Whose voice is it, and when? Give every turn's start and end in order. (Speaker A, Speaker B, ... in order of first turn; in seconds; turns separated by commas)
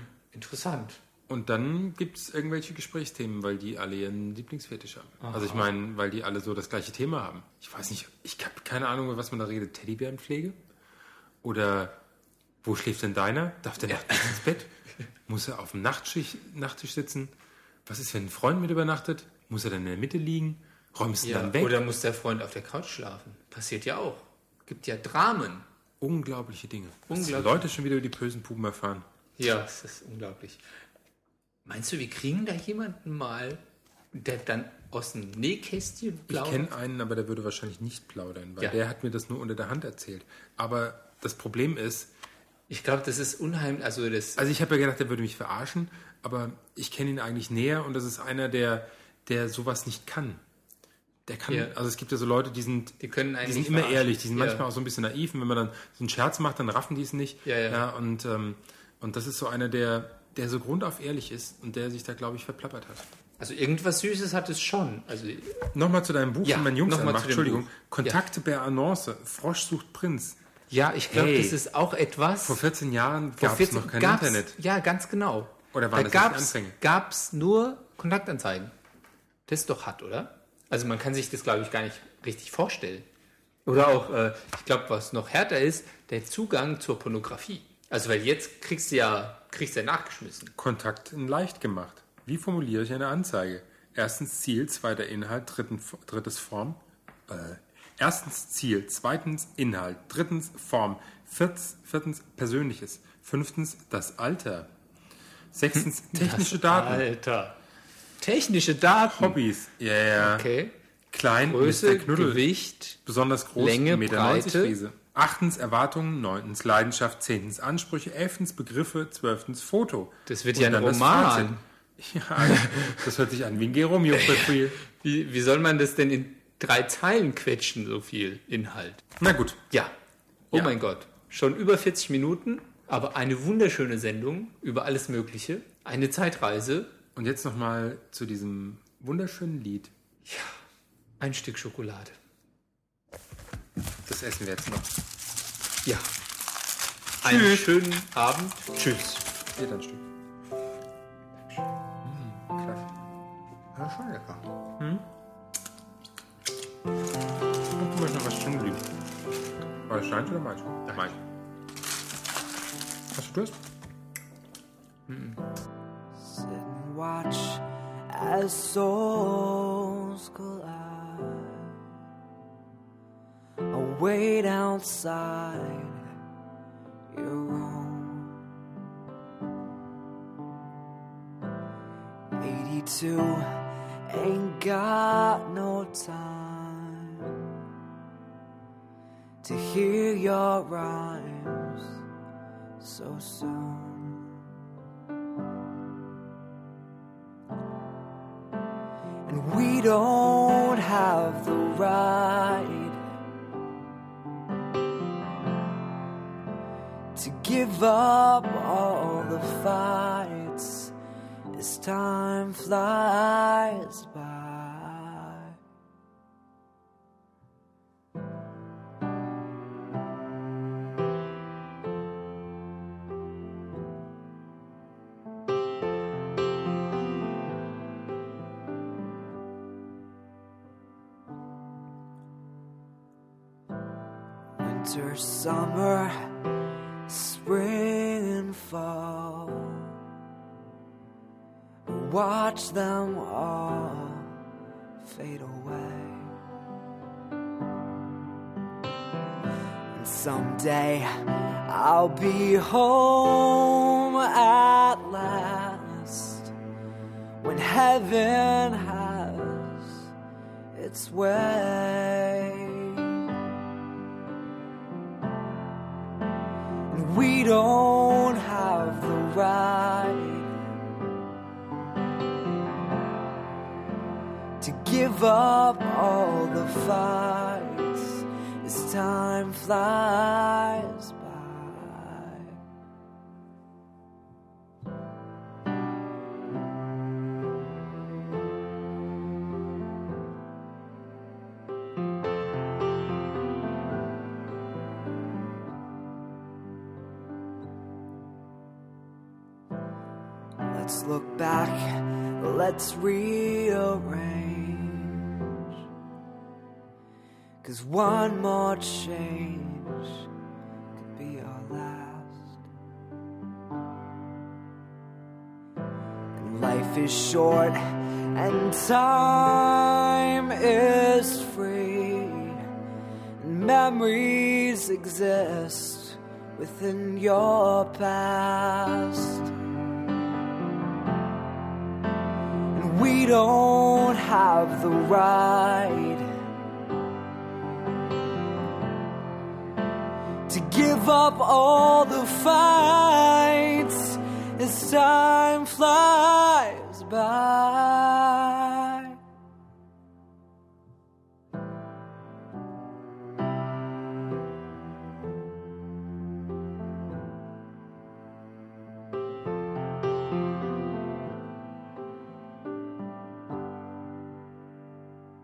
Speaker A: 0.3-1.0, Speaker B: 1.3-10.6, Speaker A: 5.2-5.7, Speaker B: 11.4-11.9, Speaker B: 12.6-14.7, Speaker A: 13.9-14.4, Speaker B: 15.3-17.3, Speaker B: 17.9-21.8, Speaker A: 21.2-25.7, Speaker B: 26.0-29.1, Speaker A: 27.1-27.7, Speaker A: 29.4-30.6, Speaker A: 31.6-33.6, Speaker A: 34.1-36.7, Speaker B: 36.3-42.1, Speaker A: 42.7-44.4, Speaker B: 44.4-50.4, Speaker B: 51.3-63.0, Speaker A: 53.0-54.6, Speaker A: 57.5-57.8, Speaker A: 63.4-65.7, Speaker B: 65.7-70.4, Speaker A: 66.4-68.2, Speaker A: 70.7-72.6, Speaker B: 71.1-71.6, Speaker B: 72.4-74.6, Speaker A: 73.4-78.7, Speaker B: 75.7-76.8, Speaker A: 79.5-83.1, Speaker A: 83.7-90.5, Speaker B: 90.6-104.7, Speaker B: 105.5-107.1, Speaker A: 105.7-107.6, Speaker A: 108.2-109.4, Speaker B: 109.0-110.5, Speaker A: 110.2-110.7, Speaker B: 111.1-124.8, Speaker A: 111.5-113.0, Speaker A: 113.5-114.8, Speaker A: 120.3-121.6, Speaker A: 122.4-123.0, Speaker A: 124.1-129.1, Speaker B: 129.2-129.6, Speaker A: 130.5-137.0, Speaker B: 137.2-139.9, Speaker A: 140.3-140.6, Speaker A: 141.2-142.2, Speaker B: 144.1-144.9, Speaker A: 145.8-146.1, Speaker B: 147.2-147.7, Speaker A: 147.2-149.2, Speaker B: 149.6-150.0, Speaker B: 152.0-152.9, Speaker A: 153.8-154.5, Speaker B: 154.8-155.1, Speaker B: 157.8-158.9, Speaker B: 159.9-161.2, Speaker B: 163.1-163.6, Speaker A: 165.1-165.4, Speaker C: 166.2-171.8, Speaker C: 173.7-176.1, Speaker C: 177.1-178.4, Speaker C: 182.4-187.4, Speaker C: 189.4-192.0, Speaker C: 192.8-194.2, Speaker C: 199.3-203.1, Speaker C: 207.2-210.9, Speaker C: 211.5-215.6, Speaker C: 234.6-236.4, Speaker C: 237.1-239.9, Speaker C: 241.9-244.3, Speaker C: 245.0-246.3, Speaker C: 249.9-256.5, Speaker C: 257.4-260.1, Speaker C: 260.7-263.2, Speaker C: 266.9-270.6, Speaker C: 274.6-282.6, Speaker C: 300.7-305.7, Speaker C: 307.6-310.2, Speaker C: 311.0-312.6, Speaker C: 316.4-322.7, Speaker C: 323.4-329.6, Speaker C: 332.7-336.3, Speaker C: 340.5-349.2